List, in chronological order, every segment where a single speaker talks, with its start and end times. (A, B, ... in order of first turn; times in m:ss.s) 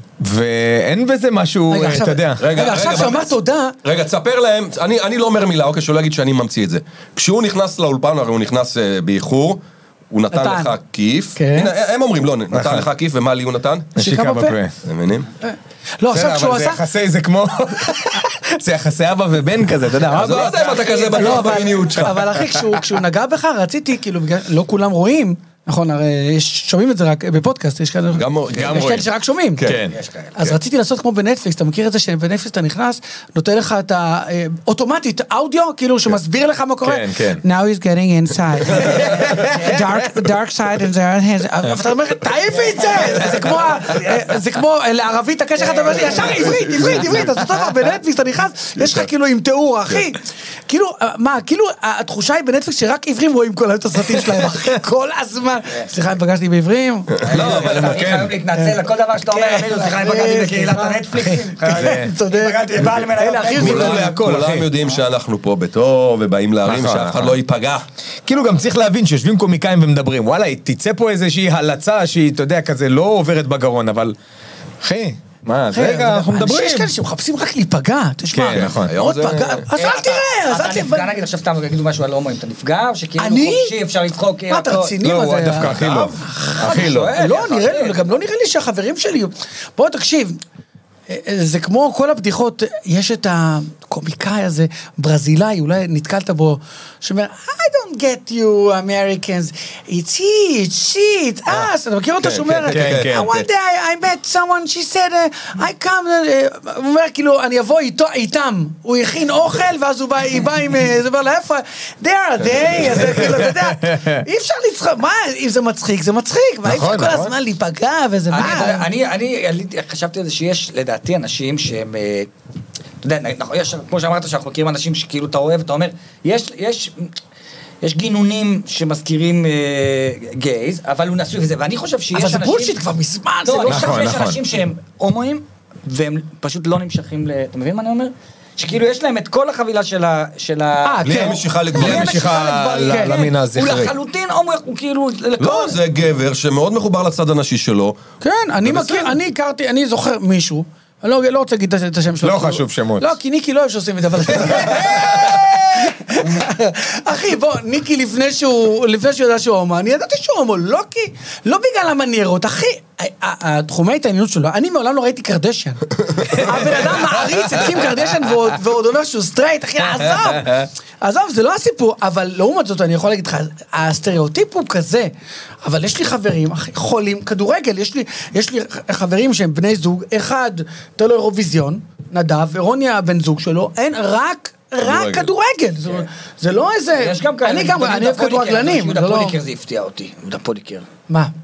0:00.2-0:02.6 A
0:01.7-0:03.8 B
0:02.4-0:13.9 C
0:10.3-0:10.8 B
0:11.4-0:11.7 B
0:12.5-0:12.9 A
0:14.0-0:14.7 A
0:14.0-0:14.6 B
0:14.8-0:15.3 C
0:15.4-0:16.8 B
0:16.1-0:21.6 A
0:20.1-0:22.2 C
0:20.3-0:29.7 B
0:22.3-0:22.8 A
0:28.1-0:28.9 C
0:28.5-0:29.1 A
0:29.6-0:29.8 C
0:29.6-0:30.0 A
0:29.9-0:30.3 D
0:30.4-0:57.3 B
0:36.8-0:37.4 A
0:38.8-0:39.8 A
0:45.6-0:46.8 D
0:48.8-0:49.0 C
0:54.2-0:54.4 A
0:57.2-0:58.3 C
0:57.2-1:04.1 D
0:57.4-0:58.4 A
0:59.3-1:04.1 B
1:01.7-1:02.1 A
1:03.5-1:07.8 C
1:03.6-1:04.7 A
1:06.6-1:07.4 A
1:08.2-1:14.2 A
1:14.8-1:16.9 A
1:15.7-1:21.2 B
1:18.3-1:18.9 A
1:18.6-1:19.7 C
1:19.8-1:25.0 D
1:23.2-1:23.8 B
1:24.5-1:30.4 B
1:25.0-1:27.2 A
1:26.6-1:28.2 D
1:31.1-1:58.9 B
1:42.2-1:43.2 C
1:42.7-1:43.4 A
1:53.2-1:54.1 A
1:56.6-1:57.3 A
1:58.3-2:02.3 D
2:03.0-2:07.1 D
2:07.8-2:12.8 D
2:12.1-2:14.1 B
2:13.4-2:21.1 D
2:13.7-2:14.4 A
2:20.8-2:23.2 B
2:21.1-2:22.3 C
2:21.1-2:23.9 A
2:22.4-2:25.8 D
2:25.4-2:28.0 C
2:28.2-2:55.1 B
2:28.6-2:29.1 C
2:32.2-2:33.1 A
2:34.4-2:35.3 A
2:55.6-3:09.4 B
3:04.8-3:05.3 C
3:07.0-3:10.9 D